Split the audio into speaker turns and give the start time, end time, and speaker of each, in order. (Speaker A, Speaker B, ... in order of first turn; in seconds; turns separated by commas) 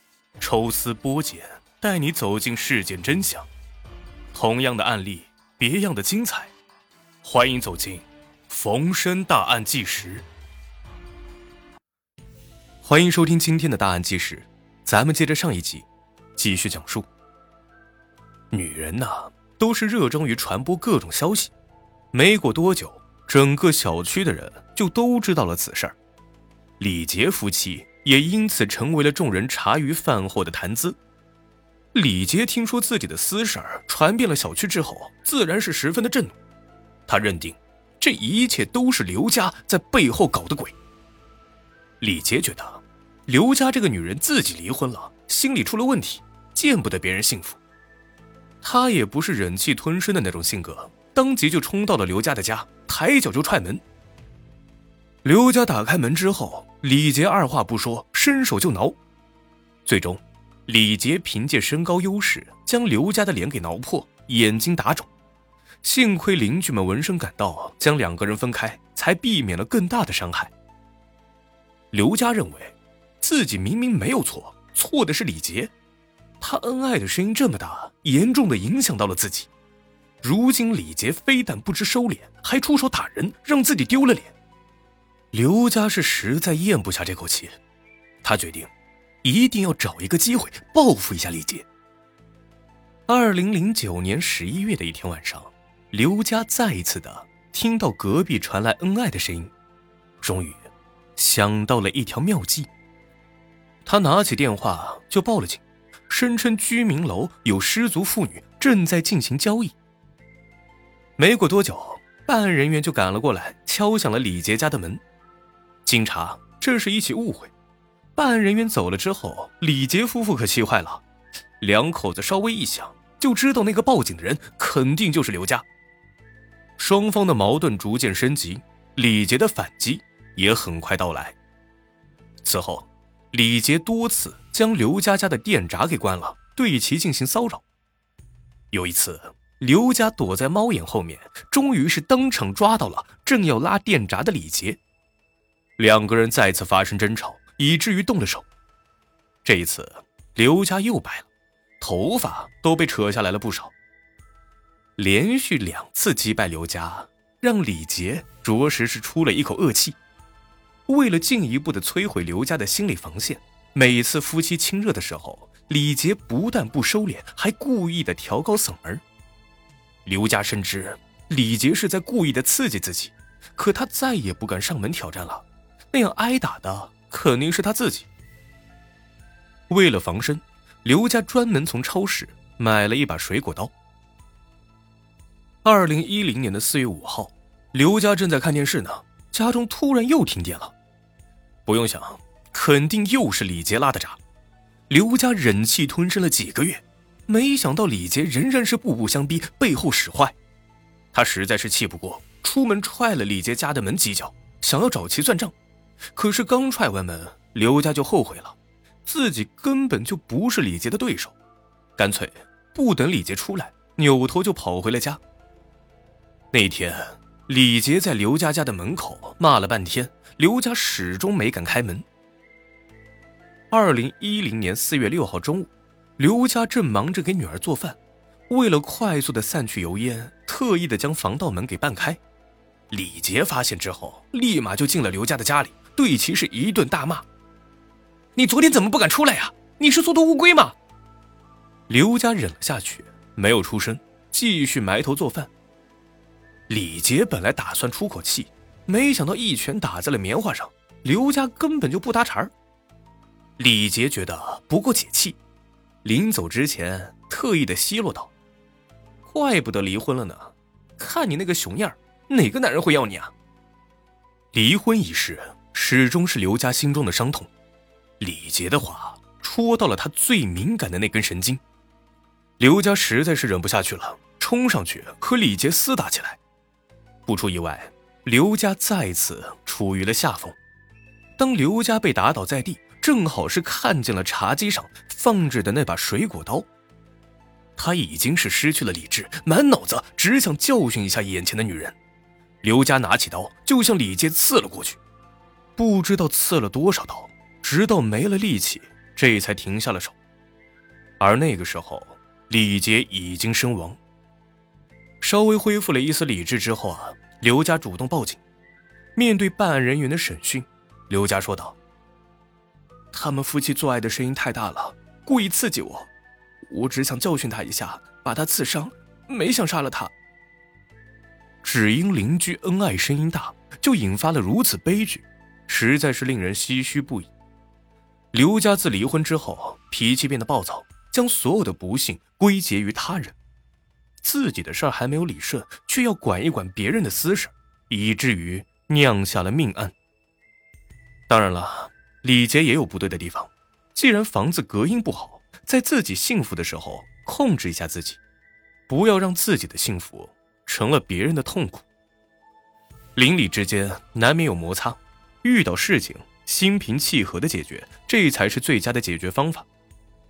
Speaker A: 0.4-3.5, Speaker A: 4.3-6.5, Speaker A: 7.2-10.2, Speaker A: 12.8-17.1, Speaker A: 18.5-21.5, Speaker A: 22.1-25.9, Speaker A: 26.8-31.0, Speaker A: 31.9-36.4, Speaker A: 37.1-40.8, Speaker A: 42.0-47.6, Speaker A: 48.6-53.8, Speaker A: 55.2-59.0, Speaker A: 59.8-65.1, Speaker A: 65.8-70.5, Speaker A: 71.9-75.7, Speaker A: 76.4-79.5, Speaker A: 80.2-84.3, Speaker A: 85.3-87.6, Speaker A: 88.2-88.7, Speaker A: 89.2-91.7, Speaker A: 93.1-99.5, Speaker A: 100.2-102.7, Speaker A: 103.8-109.7, Speaker A: 111.2-115.0, Speaker A: 115.8-117.5, Speaker A: 118.2-121.0, Speaker A: 121.6-125.6, Speaker A: 126.8-131.3, Speaker A: 132.4-137.6, Speaker A: 138.7-144.8, Speaker A: 145.8-148.5, Speaker A: 149.4-151.3, Speaker A: 151.8-153.7, Speaker A: 155.0-160.0, Speaker A: 160.9-169.0, Speaker A: 170.1-178.1, Speaker A: 179.7-183.7, Speaker A: 185.6-190.7, Speaker A: 191.7-194.2, Speaker A: 194.9-200.3, Speaker A: 201.1-205.5, Speaker A: 206.1-211.4, Speaker A: 212.0-215.2, Speaker A: 216.5-222.0, Speaker A: 223.7-228.0, Speaker A: 228.5-232.2, Speaker A: 232.9-237.2, Speaker A: 238.3-240.8, Speaker A: 241.9-245.5, Speaker A: 246.7-252.5, Speaker A: 253.6-255.4, Speaker A: 256.0-258.3, Speaker A: 259.2-263.3, Speaker A: 264.5-267.5, Speaker A: 268.2-271.6, Speaker A: 272.6-276.4, Speaker A: 277.2-280.6, Speaker A: 281.4-286.7, Speaker A: 287.8-292.0, Speaker A: 292.6-295.0, Speaker A: 295.8-300.2, Speaker A: 301.2-304.0, Speaker A: 305.2-308.4, Speaker A: 309.1-311.8, Speaker A: 313.1-316.1, Speaker A: 316.7-320.1, Speaker A: 321.6-327.3, Speaker A: 328.3-333.4, Speaker A: 334.2-339.9, Speaker A: 341.3-348.2, Speaker A: 348.9-351.8, Speaker A: 353.1-359.6